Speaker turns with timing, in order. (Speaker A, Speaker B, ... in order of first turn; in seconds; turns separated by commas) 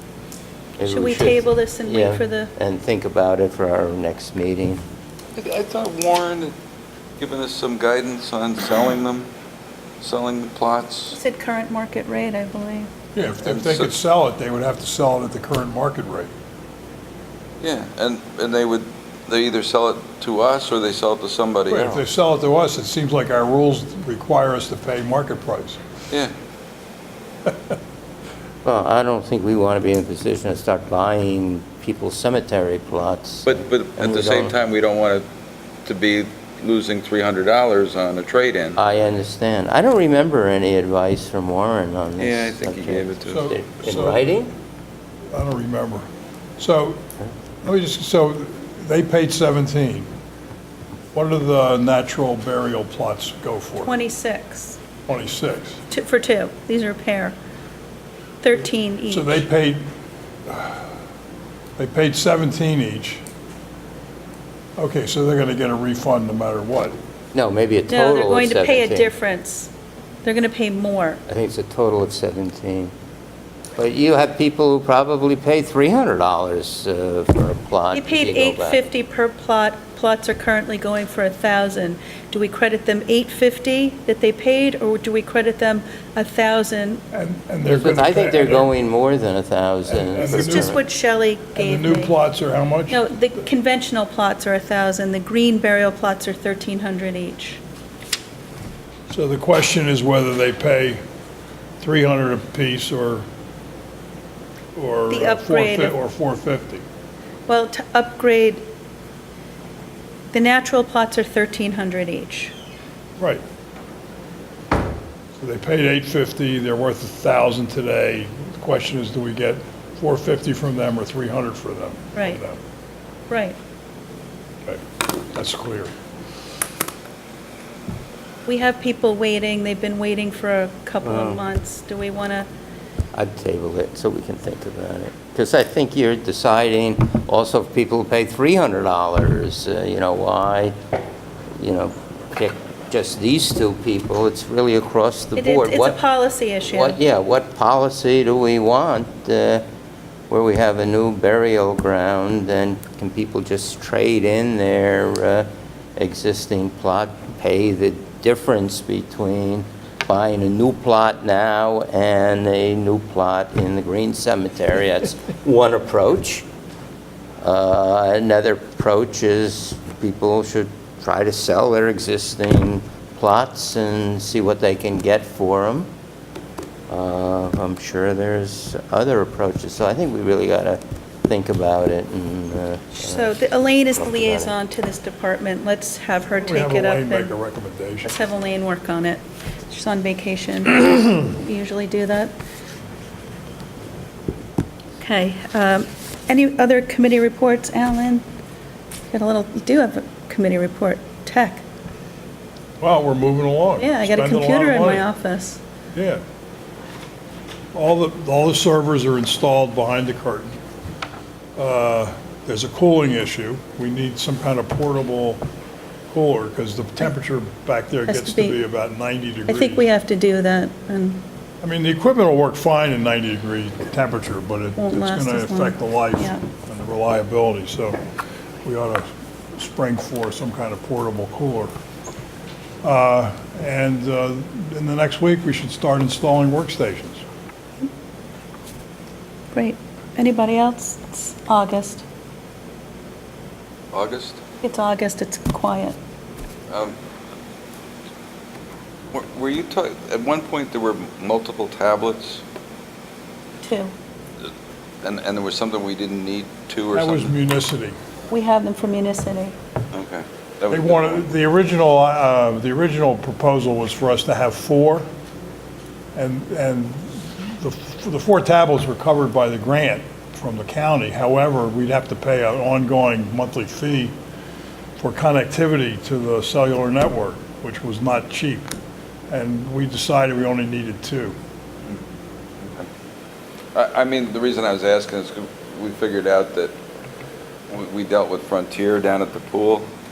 Speaker A: 0.8-4.8, Speaker B: 0.8-2.5, Speaker C: 5.3-6.5, Speaker C: 7.2-9.3, Speaker C: 10.0-11.2, Speaker B: 11.1-12.9, Speaker D: 13.1-16.3, Speaker C: 13.4-13.9, Speaker C: 17.6-22.0, Speaker D: 21.7-25.8, Speaker D: 27.5-27.7, Speaker A: 28.6-34.5, Speaker C: 33.5-35.2, Speaker C: 35.9-38.8, Speaker A: 38.8-44.5, Speaker C: 42.2-43.5, Speaker D: 43.3-44.4, Speaker D: 45.3-46.0, Speaker D: 46.6-47.0, Speaker D: 47.6-50.1, Speaker D: 51.1-53.9, Speaker B: 53.8-54.8, Speaker D: 55.1-55.8, Speaker B: 55.9-57.4, Speaker B: 58.4-59.4, Speaker D: 59.1-59.9, Speaker D: 60.5-60.9, Speaker D: 61.8-63.2, Speaker D: 64.8-67.0, Speaker A: 67.3-69.1, Speaker B: 67.9-69.7, Speaker B: 70.2-71.2, Speaker A: 71.3-72.9, Speaker A: 73.8-78.9, Speaker B: 77.9-87.0, Speaker D: 87.1-88.7, Speaker A: 87.7-90.8, Speaker D: 89.9-90.8, Speaker B: 90.2-92.1, Speaker D: 91.5-93.0, Speaker B: 92.9-97.6, Speaker D: 99.1-101.0, Speaker D: 101.8-103.2, Speaker D: 104.7-106.8, Speaker B: 105.1-106.0, Speaker B: 107.5-108.7, Speaker B: 110.3-112.5, Speaker D: 113.2-113.4, Speaker D: 115.3-122.6, Speaker B: 122.1-122.4, Speaker B: 123.3-123.6, Speaker D: 124.6-125.9, Speaker B: 128.4-132.5, Speaker A: 131.0-131.4, Speaker A: 133.1-140.8, Speaker A: 141.6-146.0, Speaker B: 145.3-147.0, Speaker A: 146.6-149.7, Speaker A: 150.3-166.4, Speaker A: 167.4-175.9, Speaker A: 176.9-183.4, Speaker B: 182.9-187.3, Speaker A: 183.9-184.6, Speaker D: 186.4-188.1, Speaker B: 188.0-192.3, Speaker B: 195.0-198.2, Speaker B: 199.1-201.7, Speaker D: 202.8-205.1, Speaker B: 203.8-205.6, Speaker D: 205.9-206.2, Speaker D: 207.7-210.6, Speaker D: 211.6-215.4, Speaker D: 216.1-219.9, Speaker B: 218.1-218.6, Speaker B: 219.4-221.2, Speaker D: 221.6-228.0, Speaker B: 224.8-226.4, Speaker D: 228.6-231.7, Speaker D: 232.8-237.2, Speaker B: 239.5-242.0, Speaker C: 243.9-244.4, Speaker B: 244.6-246.0, Speaker C: 246.7-246.9, Speaker C: 249.1-252.4, Speaker B: 253.6-253.9, Speaker C: 255.0-257.3, Speaker D: 256.9-257.9, Speaker B: 258.3-259.6, Speaker C: 259.9-261.3, Speaker D: 260.7-265.1, Speaker D: 266.1-274.1, Speaker D: 275.0-278.7, Speaker D: 279.3-281.4, Speaker C: 282.6-282.9, Speaker C: 283.7-286.7, Speaker C: 287.7-289.9